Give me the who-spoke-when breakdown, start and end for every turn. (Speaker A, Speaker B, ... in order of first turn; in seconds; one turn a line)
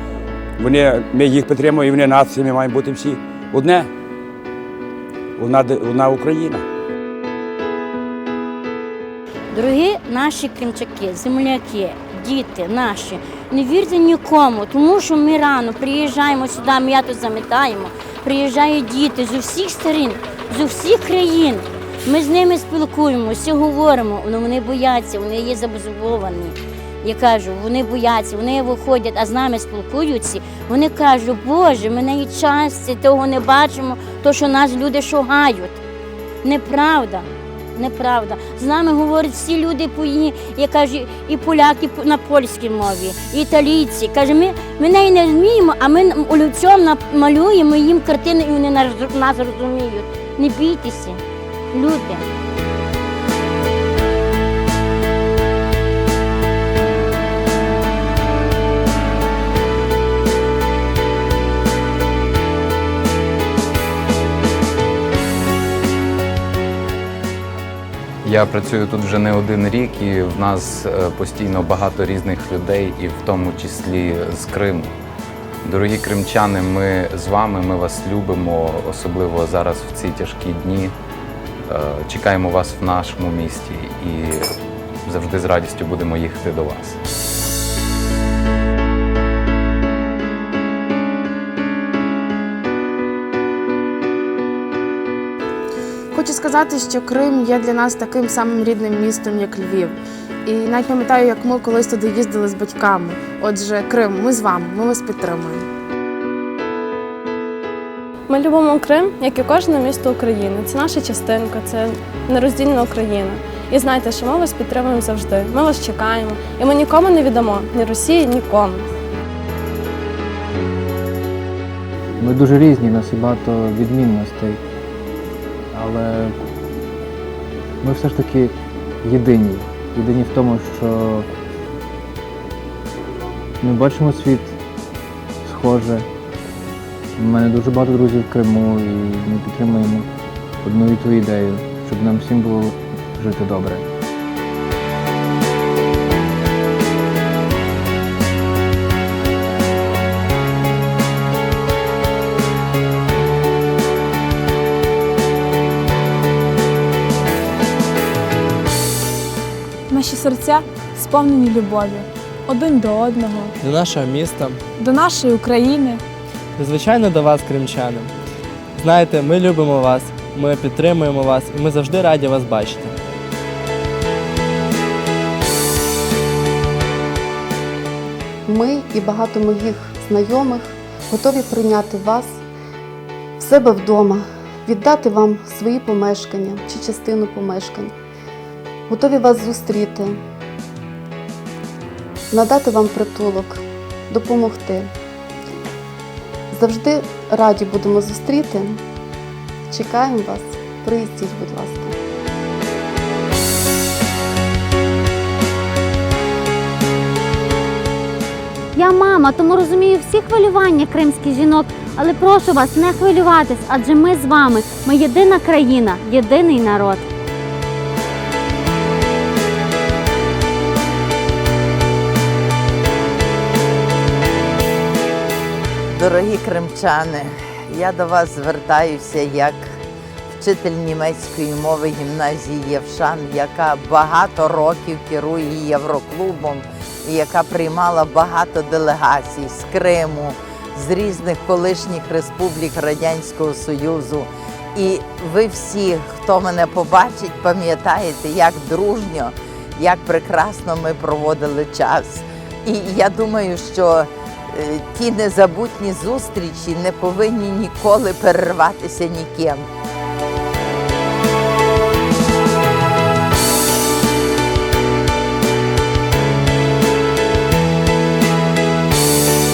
Speaker A: 0.6-3.9
Speaker A: 5.4-6.6
Speaker B: 9.5-35.8
Speaker B: 36.4-51.2
Speaker B: 51.7-52.2
Speaker C: 68.2-74.9
Speaker C: 75.6-80.9
Speaker C: 81.7-84.4
Speaker C: 85.0-87.0
Speaker D: 96.1-105.7
Speaker E: 108.3-118.8
Speaker F: 122.2-124.6
Speaker F: 125.7-126.3
Speaker F: 127.8-131.3
Speaker F: 133.6-134.5
Speaker F: 135.4-136.1
Speaker F: 137.2-140.1
Speaker F: 140.6-143.8
Speaker G: 159.9-163.5
Speaker H: 163.6-164.6
Speaker G: 164.7-166.0
Speaker H: 166.6-168.1
Speaker H: 168.8-172.9
Speaker I: 178.4-182.4
Speaker I: 183.4-187.9
Speaker I: 188.9-190.2
Speaker I: 192.3-194.9
Speaker I: 196.5-198.8
Speaker I: 199.7-201.9
Speaker J: 208.7-217.1
Speaker K: 225.9-229.8
Speaker K: 230.3-259.7